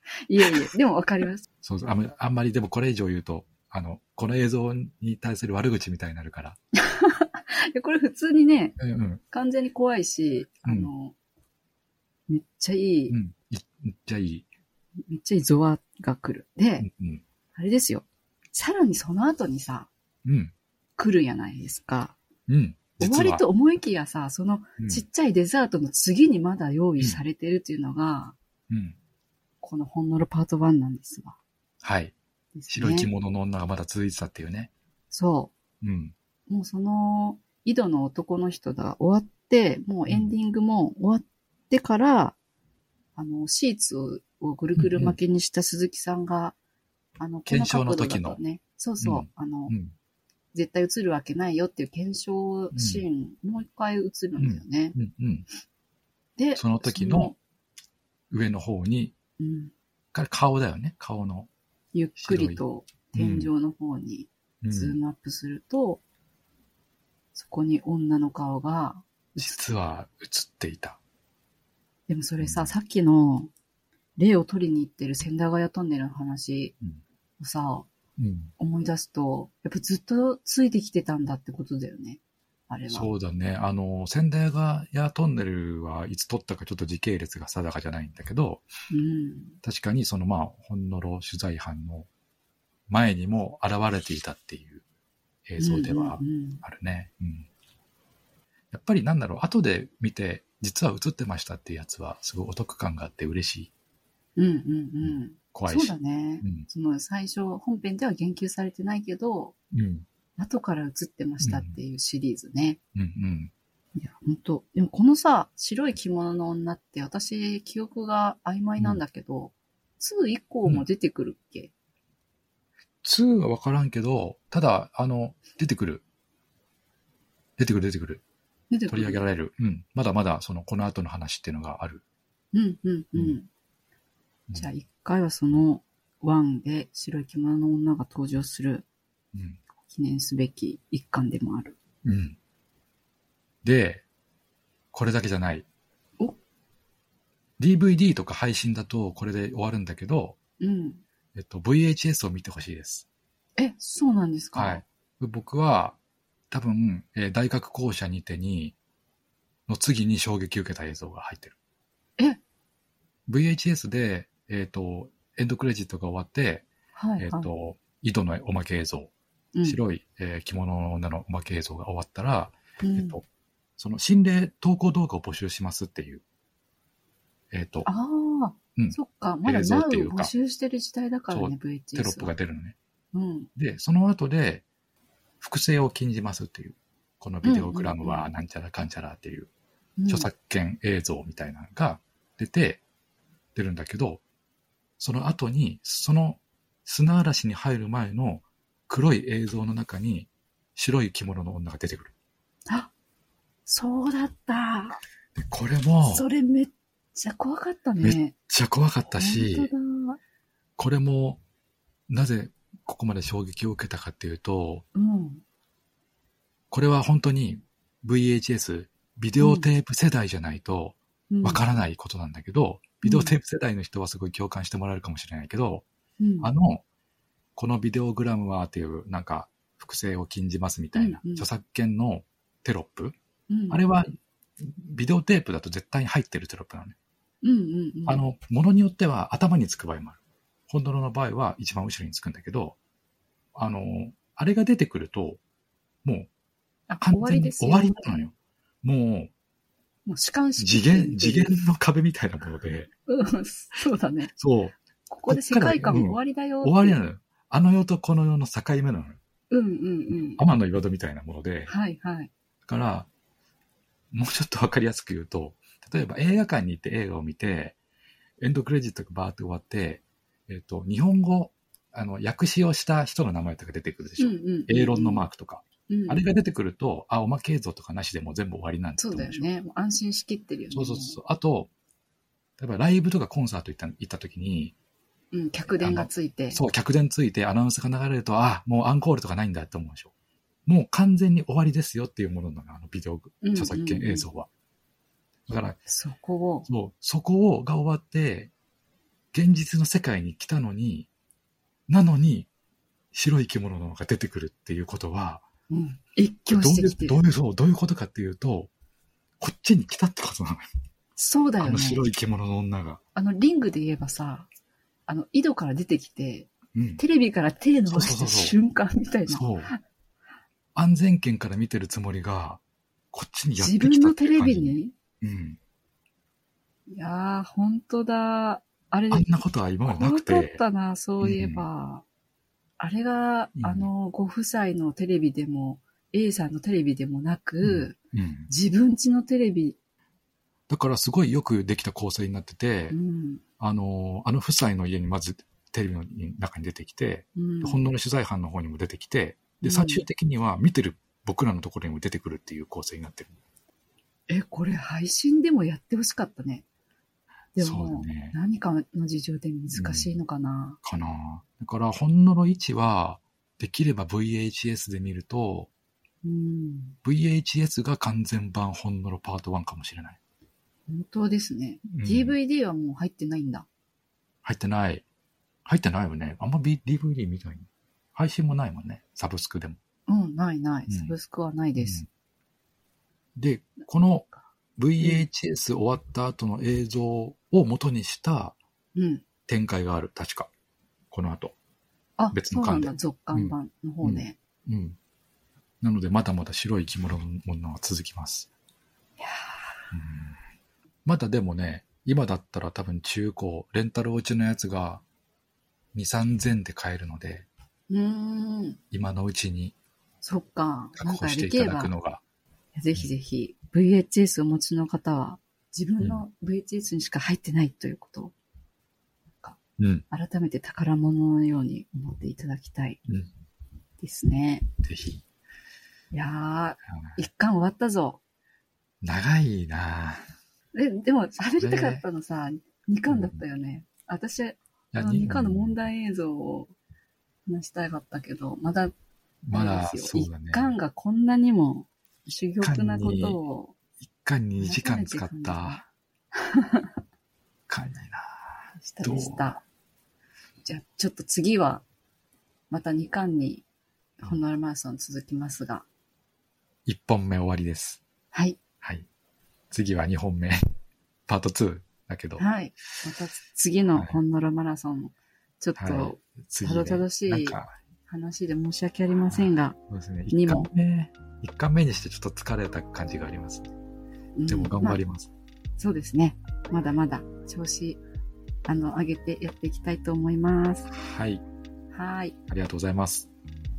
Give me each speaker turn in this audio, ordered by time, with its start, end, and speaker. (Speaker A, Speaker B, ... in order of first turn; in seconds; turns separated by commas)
Speaker A: 0.2-1.4, Speaker B: 1.6-6.6, Speaker A: 6.7-8.8, Speaker B: 8.8-9.2, Speaker A: 9.3-11.1, Speaker B: 10.6-10.9, Speaker A: 12.3-13.2, Speaker B: 13.1-14.4, Speaker A: 15.1-16.9, Speaker B: 16.8-17.2, Speaker A: 17.5-19.9, Speaker B: 20.2-20.5, Speaker A: 21.0-22.2, Speaker B: 22.5-23.4, Speaker A: 23.0-28.4, Speaker B: 24.8-25.0, Speaker B: 28.7-29.0, Speaker A: 29.6-31.4, Speaker B: 31.8-32.1, Speaker A: 32.5-33.1, Speaker B: 32.7-34.7, Speaker A: 35.1-35.5, Speaker B: 35.8-36.1, Speaker A: 36.5-42.4, Speaker B: 40.1-40.3, Speaker A: 43.1-46.5, Speaker B: 44.8-45.1, Speaker A: 47.2-49.7, Speaker B: 47.5-48.4, Speaker B: 49.0-49.9, Speaker A: 50.5-55.0, Speaker B: 52.7-53.0, Speaker B: 54.4-55.5, Speaker A: 56.4-57.4, Speaker B: 56.5-57.3, Speaker B: 58.3-59.1, Speaker A: 59.4-59.7, Speaker B: 60.1-61.5, Speaker A: 61.9-66.0, Speaker B: 62.2-62.6, Speaker B: 63.1-63.5, Speaker B: 64.6-65.0, Speaker A: 67.3-69.6, Speaker B: 69.4-71.0, Speaker A: 72.1-73.5, Speaker B: 72.4-72.7, Speaker A: 74.2-76.7, Speaker A: 77.4-77.9, Speaker B: 78.2-78.5, Speaker A: 78.6-83.1, Speaker B: 82.9-88.7, Speaker A: 88.9-89.6, Speaker B: 89.6-92.1, Speaker B: 92.9-94.8, Speaker B: 95.5-97.5, Speaker A: 95.6-96.6, Speaker B: 98.7-103.7, Speaker A: 104.3-109.5, Speaker B: 105.0-106.7, Speaker B: 109.7-110.0, Speaker A: 110.4-112.8, Speaker B: 111.4-111.8, Speaker B: 112.9-113.5, Speaker A: 114.0-121.7, Speaker B: 123.0-126.0, Speaker B: 127.6-128.2, Speaker A: 128.7-129.2, Speaker B: 128.9-132.0, Speaker A: 132.5-133.5, Speaker A: 134.5-138.8, Speaker B: 139.3-139.6, Speaker A: 139.9-141.8, Speaker B: 142.0-142.4, Speaker B: 143.6-144.0, Speaker B: 144.9-145.7, Speaker B: 147.6-150.4, Speaker A: 150.6-151.0, Speaker B: 151.3-153.1, Speaker A: 153.6-154.8, Speaker B: 154.5-156.0, Speaker B: 156.5-158.8, Speaker B: 159.7-161.6, Speaker B: 163.3-166.7, Speaker A: 166.9-167.5, Speaker B: 167.2-169.1, Speaker A: 169.5-169.8, Speaker B: 169.6-173.2, Speaker A: 172.8-173.2, Speaker B: 173.8-176.2, Speaker B: 177.5-177.9, Speaker A: 177.8-182.3, Speaker B: 178.8-180.3, Speaker B: 181.3-182.8, Speaker A: 183.1-183.5, Speaker B: 183.6-184.6, Speaker B: 185.4-189.5, Speaker A: 187.4-188.3, Speaker A: 190.0-190.3, Speaker B: 190.1-192.8, Speaker B: 193.5-194.2, Speaker B: 195.0-202.1, Speaker A: 203.7-205.0, Speaker B: 205.3-206.2, Speaker A: 206.1-208.3, Speaker B: 208.0-209.7, Speaker A: 209.1-210.2, Speaker B: 210.8-211.4, Speaker B: 212.1-214.8, Speaker A: 214.9-215.4, Speaker B: 216.7-225.8, Speaker A: 219.4-219.7, Speaker A: 221.3-221.6, Speaker A: 223.0-223.3, Speaker A: 226.2-226.5, Speaker B: 226.4-226.8, Speaker B: 227.6-233.1, Speaker A: 230.9-231.5, Speaker A: 233.5-233.8, Speaker B: 233.7-236.9, Speaker A: 237.4-238.2, Speaker B: 238.1-240.2, Speaker B: 240.7-242.8, Speaker B: 243.5-245.4, Speaker A: 246.9-248.2, Speaker B: 247.0-249.3, Speaker A: 250.1-251.6, Speaker B: 250.6-252.9, Speaker A: 253.1-254.3, Speaker B: 254.3-254.7, Speaker A: 255.1-257.0, Speaker B: 255.3-259.2, Speaker A: 259.5-260.4, Speaker B: 260.4-261.7, Speaker A: 261.7-262.3, Speaker B: 262.6-263.1, Speaker B: 264.1-267.8, Speaker B: 268.4-279.5, Speaker A: 274.2-275.2, Speaker A: 275.9-276.3, Speaker A: 279.0-281.2, Speaker B: 280.7-281.7, Speaker B: 282.6-284.7, Speaker A: 285.3-286.6, Speaker B: 285.8-290.1, Speaker B: 290.6-294.5, Speaker A: 293.4-294.2, Speaker B: 295.5-295.8, Speaker A: 295.9-296.6, Speaker B: 296.7-298.5, Speaker B: 299.3-301.1, Speaker B: 301.9-302.5, Speaker B: 303.1-305.4, Speaker A: 305.7-307.2, Speaker B: 306.5-308.7, Speaker B: 309.4-310.7, Speaker A: 311.1-312.0, Speaker B: 311.6-313.0, Speaker A: 313.1-314.5, Speaker A: 315.1-319.8, Speaker B: 316.7-317.0, Speaker B: 317.9-318.6, Speaker B: 319.3-319.7, Speaker B: 320.7-322.6, Speaker B: 323.1-325.6, Speaker A: 323.6-324.9, Speaker A: 326.9-329.3, Speaker B: 329.1-330.6, Speaker A: 329.8-332.0, Speaker B: 331.2-331.6, Speaker A: 332.8-337.9, Speaker B: 333.6-333.9, Speaker B: 337.6-338.5, Speaker A: 338.5-339.8, Speaker B: 340.7-343.0, Speaker A: 342.9-343.4, Speaker B: 343.6-353.4, Speaker A: 347.4-347.8, Speaker A: 349.6-350.0, Speaker A: 354.3-356.6, Speaker A: 357.5-360.8, Speaker B: 357.6-358.3, Speaker B: 359.7-360.1, Speaker B: 360.8-365.7, Speaker A: 366.2-366.9, Speaker B: 367.0-370.2, Speaker A: 370.9-373.7, Speaker B: 371.9-372.3, Speaker B: 374.4-375.0, Speaker B: 375.6-379.8, Speaker A: 380.1-382.0, Speaker B: 380.9-381.1, Speaker B: 381.8-382.1, Speaker B: 383.4-388.6, Speaker A: 385.0-385.2, Speaker A: 388.9-389.2, Speaker B: 389.5-390.5, Speaker B: 391.1-391.5, Speaker A: 392.2-394.4, Speaker B: 392.3-395.0, Speaker B: 395.8-398.5, Speaker A: 399.2-399.9, Speaker B: 399.9-400.4, Speaker B: 401.0-405.0, Speaker B: 405.9-407.5, Speaker A: 407.9-408.8, Speaker B: 408.9-409.7, Speaker A: 410.2-411.9, Speaker B: 411.0-412.2, Speaker A: 412.8-418.3, Speaker B: 416.0-416.2, Speaker B: 419.8-420.0, Speaker A: 420.1-423.0, Speaker A: 424.0-424.7, Speaker B: 424.8-425.2, Speaker A: 426.1-428.2, Speaker B: 429.0-430.2, Speaker A: 430.7-436.7, Speaker B: 431.6-432.0, Speaker B: 433.1-433.4, Speaker B: 434.9-435.7, Speaker A: 437.5-438.9, Speaker B: 439.4-440.7, Speaker A: 439.5-443.7, Speaker B: 442.6-443.4, Speaker B: 444.0-445.8, Speaker A: 444.6-445.8, Speaker A: 446.4-446.9, Speaker B: 447.7-449.4, Speaker A: 448.8-449.6, Speaker A: 450.6-451.8, Speaker A: 452.7-453.6, Speaker A: 454.2-455.9, Speaker B: 456.9-458.0, Speaker A: 458.3-458.6, Speaker B: 459.7-460.6, Speaker B: 461.3-462.4, Speaker A: 462.4-469.8, Speaker B: 465.8-467.7, Speaker B: 469.3-473.7, Speaker A: 470.3-470.7, Speaker A: 474.4-475.0, Speaker B: 474.5-475.3, Speaker A: 475.8-478.0, Speaker A: 478.6-480.9, Speaker B: 480.9-481.4, Speaker A: 481.9-482.4, Speaker B: 482.5-483.3